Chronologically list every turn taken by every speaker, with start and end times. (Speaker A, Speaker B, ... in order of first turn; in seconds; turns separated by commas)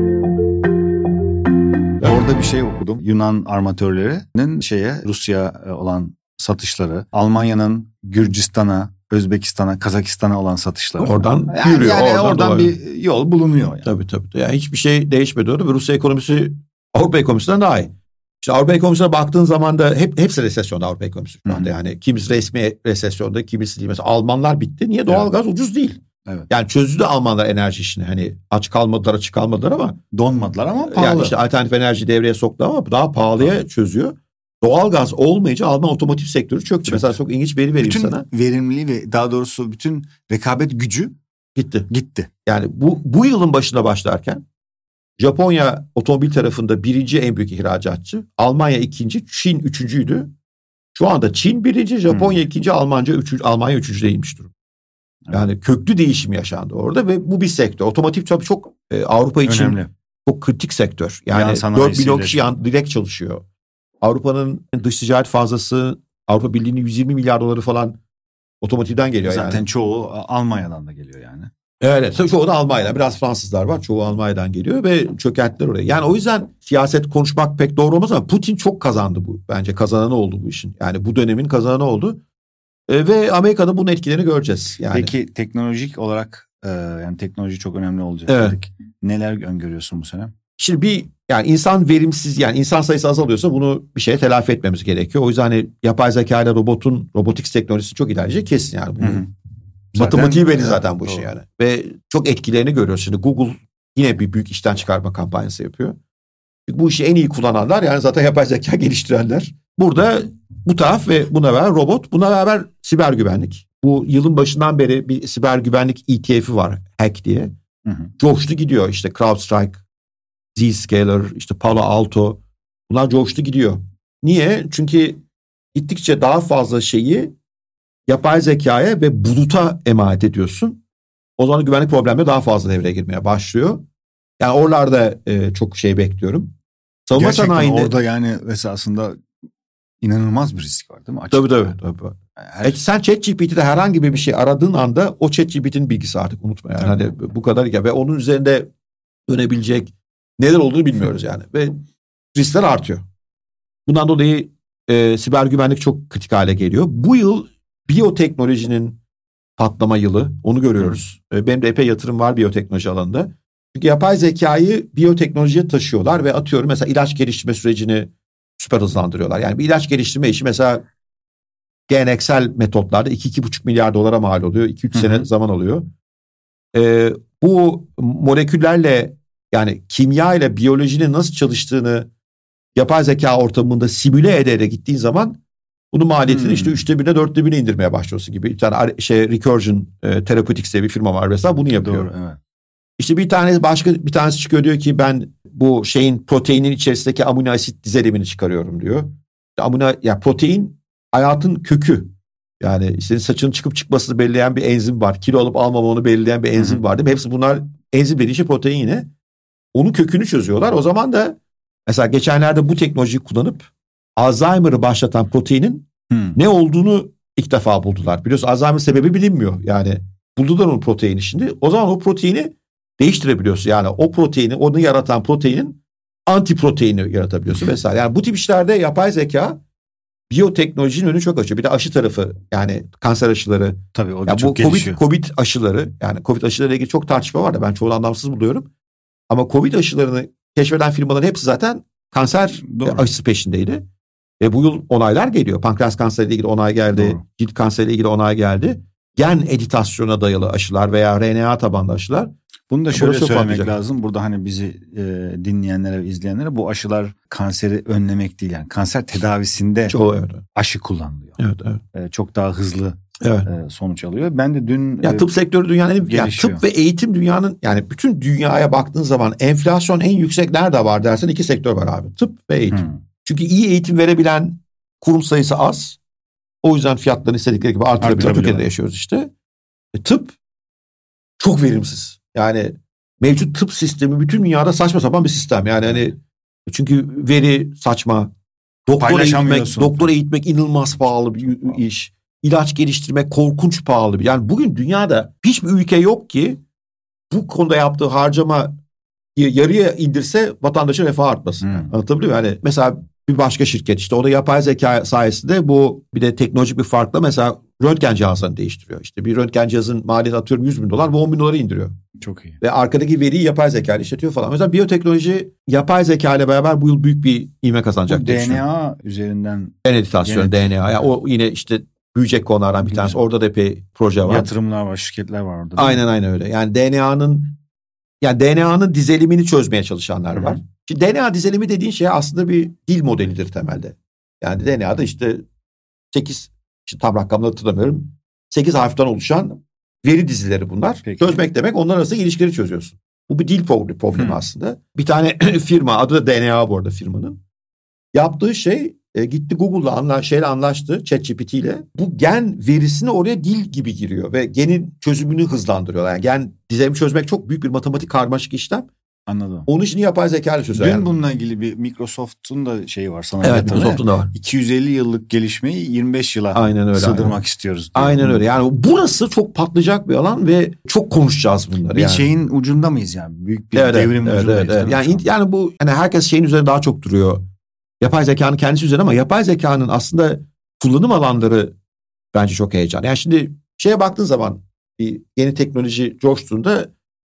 Speaker A: 2.0-13.9, Speaker B: 11.0-12.7, Speaker B: 13.8-30.0, Speaker A: 30.1-31.4, Speaker B: 30.9-38.2, Speaker A: 36.9-37.1, Speaker A: 37.8-41.1, Speaker B: 41.6-41.9, Speaker A: 41.9-42.3, Speaker B: 42.5-44.4, Speaker B: 45.2-50.3, Speaker B: 50.9-54.5, Speaker A: 52.1-52.4, Speaker B: 55.3-63.4, Speaker A: 59.4-59.9, Speaker A: 61.3-62.5, Speaker B: 64.0-68.0, Speaker B: 68.6-69.7, Speaker A: 69.2-71.5, Speaker B: 71.8-82.2, Speaker B: 82.9-85.1, Speaker A: 84.8-90.3, Speaker B: 88.3-88.5, Speaker B: 90.6-99.2, Speaker A: 99.0-99.3, Speaker A: 99.9-101.3, Speaker B: 99.9-106.0, Speaker B: 106.7-117.5, Speaker A: 117.8-118.1, Speaker B: 118.2-119.8, Speaker B: 120.5-125.2, Speaker B: 125.7-127.3, Speaker B: 128.1-130.8, Speaker B: 131.4-133.8, Speaker B: 134.4-136.5, Speaker B: 137.1-137.9, Speaker A: 137.1-139.2, Speaker A: 140.0-141.7, Speaker B: 141.3-148.7, Speaker A: 142.4-142.8, Speaker B: 149.3-151.8, Speaker B: 152.3-153.0, Speaker B: 153.8-159.0, Speaker B: 159.6-170.8, Speaker B: 171.9-175.9, Speaker A: 174.9-175.2, Speaker B: 176.7-182.1, Speaker B: 182.8-185.4, Speaker B: 185.9-192.1, Speaker A: 186.2-186.8, Speaker A: 191.7-192.4, Speaker B: 193.0-209.1, Speaker A: 206.6-206.8, Speaker B: 209.7-229.6, Speaker A: 216.1-216.3, Speaker B: 230.3-238.7, Speaker A: 233.9-235.0, Speaker B: 239.3-243.8, Speaker A: 242.5-243.1, Speaker B: 244.4-252.3, Speaker A: 246.9-247.2, Speaker A: 252.7-259.9, Speaker B: 252.9-253.8, Speaker B: 259.9-260.4, Speaker A: 260.5-261.4, Speaker B: 261.4-261.8, Speaker A: 261.9-265.3, Speaker B: 263.2-263.5, Speaker B: 265.0-276.0, Speaker A: 266.0-266.6, Speaker A: 272.7-273.0, Speaker B: 276.6-279.3, Speaker A: 278.0-278.7, Speaker B: 279.9-280.4, Speaker B: 281.4-288.3, Speaker B: 288.9-296.6, Speaker A: 289.0-290.1, Speaker A: 291.4-291.8, Speaker B: 297.3-298.8, Speaker B: 299.4-311.9, Speaker A: 301.6-301.9, Speaker A: 312.2-312.6, Speaker B: 312.6-318.6, Speaker A: 318.1-320.8, Speaker B: 319.8-324.5, Speaker A: 322.8-323.2, Speaker A: 324.2-326.0, Speaker B: 325.8-327.6, Speaker B: 328.2-335.4, Speaker A: 330.3-330.6, Speaker B: 336.1-347.4, Speaker A: 341.0-341.4, Speaker A: 344.1-344.4, Speaker B: 348.1-358.9, Speaker A: 359.3-359.7, Speaker B: 359.7-361.1, Speaker A: 360.7-368.4, Speaker B: 363.4-364.3, Speaker B: 366.5-367.4, Speaker B: 367.9-372.3, Speaker A: 371.9-375.2, Speaker B: 373.7-377.4, Speaker B: 378.0-381.7, Speaker B: 382.3-386.9